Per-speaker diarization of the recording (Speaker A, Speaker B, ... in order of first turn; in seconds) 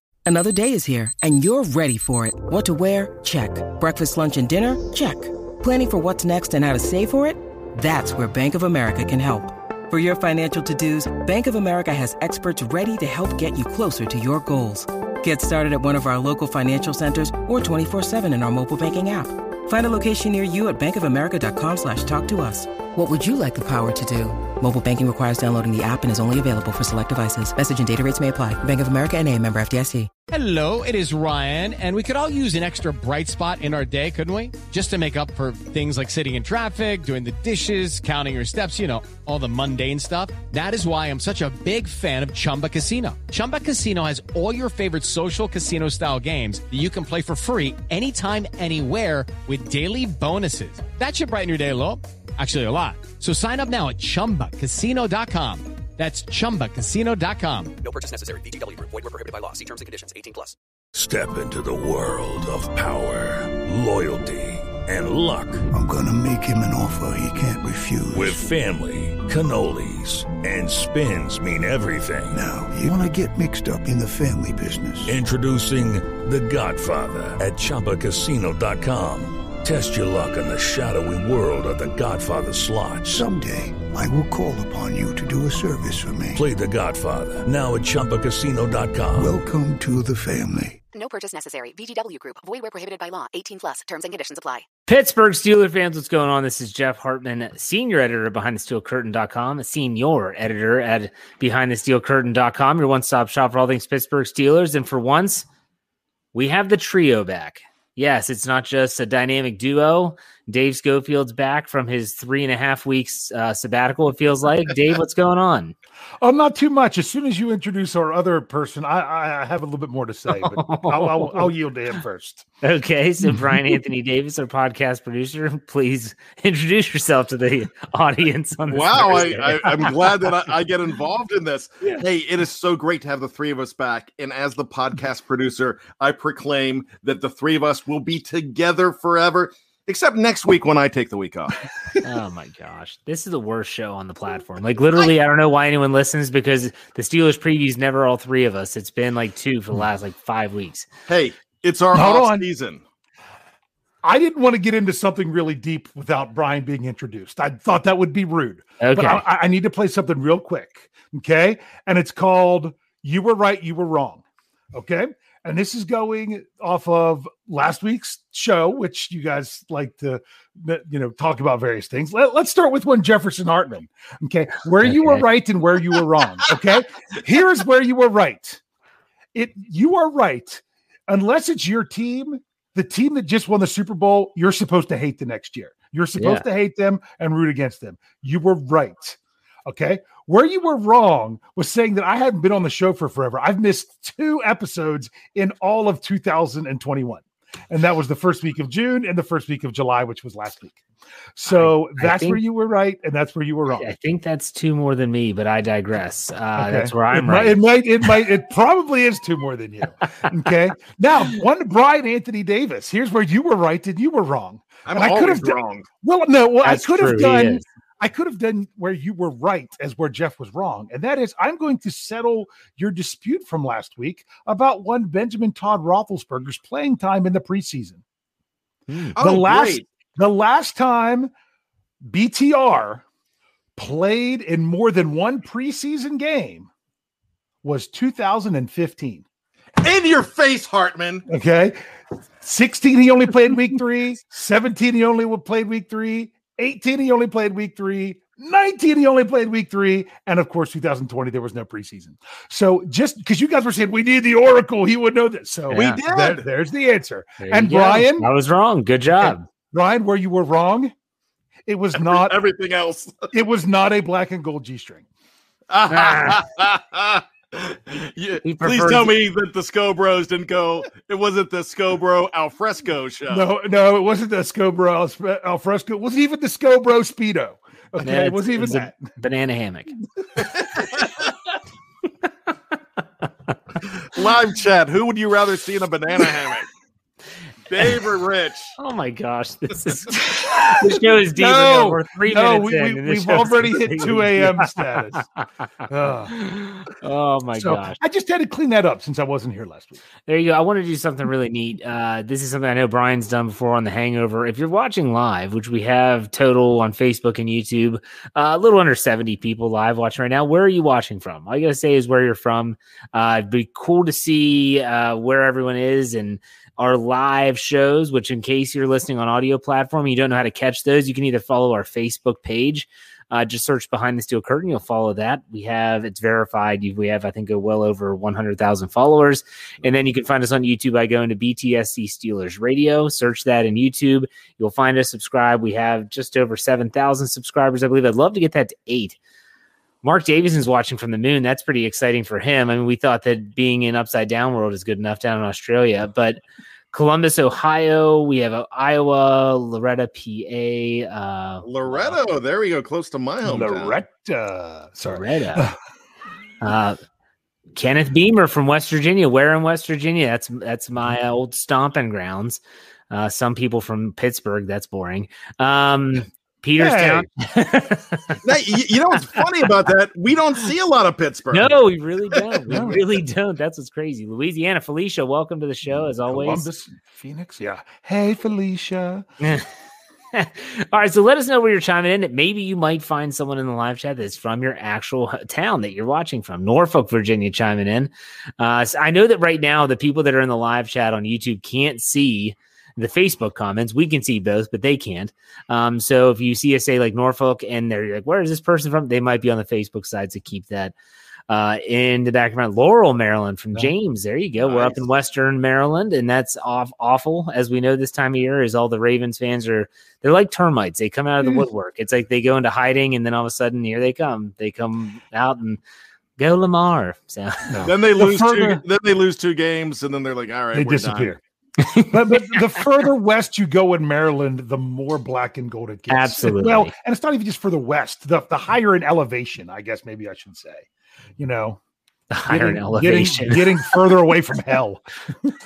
Speaker A: 0.3-30.1
Speaker B: 30.3-57.8
Speaker C: 57.8-60.5
Speaker D: 60.9-65.6, 68.1-72.4, 75.0-83.3, 86.3-89.4
Speaker E: 65.7-68.5, 72.3-75.2, 83.0-86.4, 89.1-90.8
Speaker F: 90.9-94.7
Speaker G: 94.9-105.5, 106.3-115.7, 120.3-121.5, 122.6-129.9, 142.0-150.8, 158.8-159.2, 174.8-175.2, 186.2-186.4, 201.5-202.4, 203.8-207.6, 216.6-217.6, 228.9-229.2, 255.7-256.0, 257.4-259.5, 265.9-266.4, 268.4-269.1, 278.0-279.9, 288.8-295.2, 296.3-298.0, 300.3-339.2, 340.0-346.4, 346.9-352.2, 355.1-355.6, 356.6-357.0, 357.8-368.4, 371.5-376.7, 379.4-379.7, 380.3-400.9, 401.5-415.8, 416.4-417.7, 421.8-422.6, 426.1-426.9, 432.3-433.9
Speaker H: 116.2-122.5, 123.2-123.8, 151.9-152.4, 154.0-178.6, 179.3-200.8, 201.3-203.9, 206.6-228.0, 229.2-231.3, 232.0-233.0, 233.8-236.7, 237.6-239.2, 241.3-241.8, 242.4-258.3, 259.2-260.9, 261.7-262.4, 263.3-265.1, 273.3-279.1, 290.8-295.2, 295.9-296.4, 297.6-300.0, 353.4-355.8, 366.8-367.3, 372.7-373.0, 376.0-379.3, 411.4-411.7, 417.7-418.8, 420.7-421.4, 422.1-430.9, 431.4-431.8, 432.5-435.5
Speaker I: 128.7-141.6, 151.1-152.8, 214.8-215.9, 229.2-229.8, 239.8-241.2, 255.7-256.4, 261.9-263.3, 265.7-273.5, 284.0-286.7, 287.7-288.7, 351.6-353.9, 368.4-371.8, 404.6-405.0, 417.8-421.3